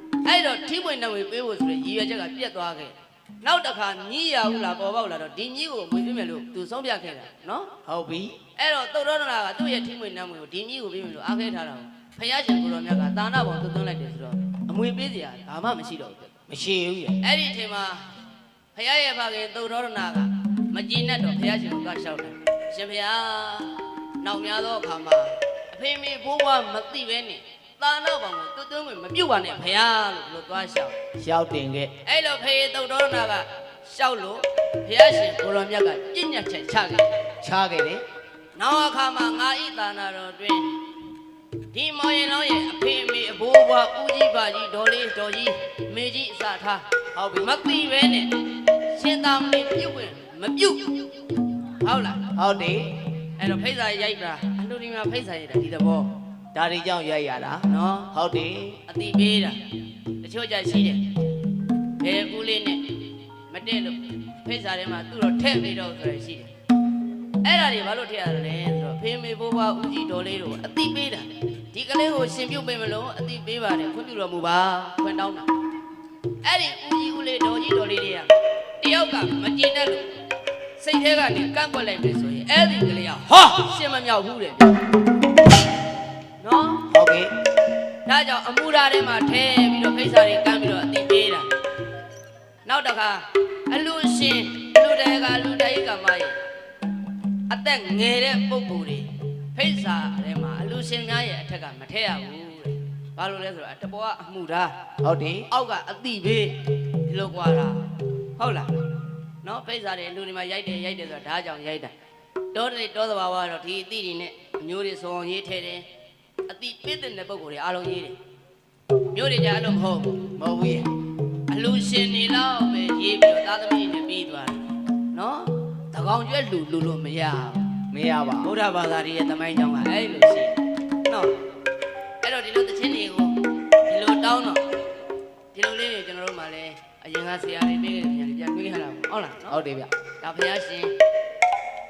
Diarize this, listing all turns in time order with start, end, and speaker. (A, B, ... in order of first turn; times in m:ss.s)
0:00.2-0:07.7 A
0:07.9-0:08.4 B
0:08.6-0:16.4 A
0:16.5-0:17.2 B
0:17.2-0:18.0 A
0:18.7-0:31.0 A
0:31.2-0:31.9 B
0:32.0-0:37.1 A
0:37.4-0:38.0 B
0:38.6-0:40.7 A
0:41.7-0:46.8 A
0:47.2-0:47.5 B
0:47.4-0:52.3 A
0:52.4-0:53.0 B
0:53.4-0:56.1 A
0:56.5-0:58.8 B
0:57.7-0:58.1 A
0:58.9-0:59.6 A
1:00.2-1:01.1 A
1:02.0-1:06.5 A
1:07.4-1:15.5 A
1:16.4-1:20.1 A
1:20.8-1:24.8 A
1:26.4-1:26.8 A
1:26.9-1:27.3 B
1:28.0-1:31.5 A
1:32.6-1:36.4 A
1:37.5-1:44.8 A
1:45.0-1:45.5 B
1:45.5-1:48.7 A
1:49.4-1:51.9 A
1:52.5-1:55.9 A
1:56.5-1:58.2 A
1:59.1-2:00.2 A
2:00.4-2:00.9 B
2:01.5-2:07.8 A
2:07.9-2:08.5 B
2:08.4-2:11.3 A
2:12.2-2:14.6 A
2:15.5-2:19.6 A
2:19.5-2:19.9 B
2:20.2-2:21.0 A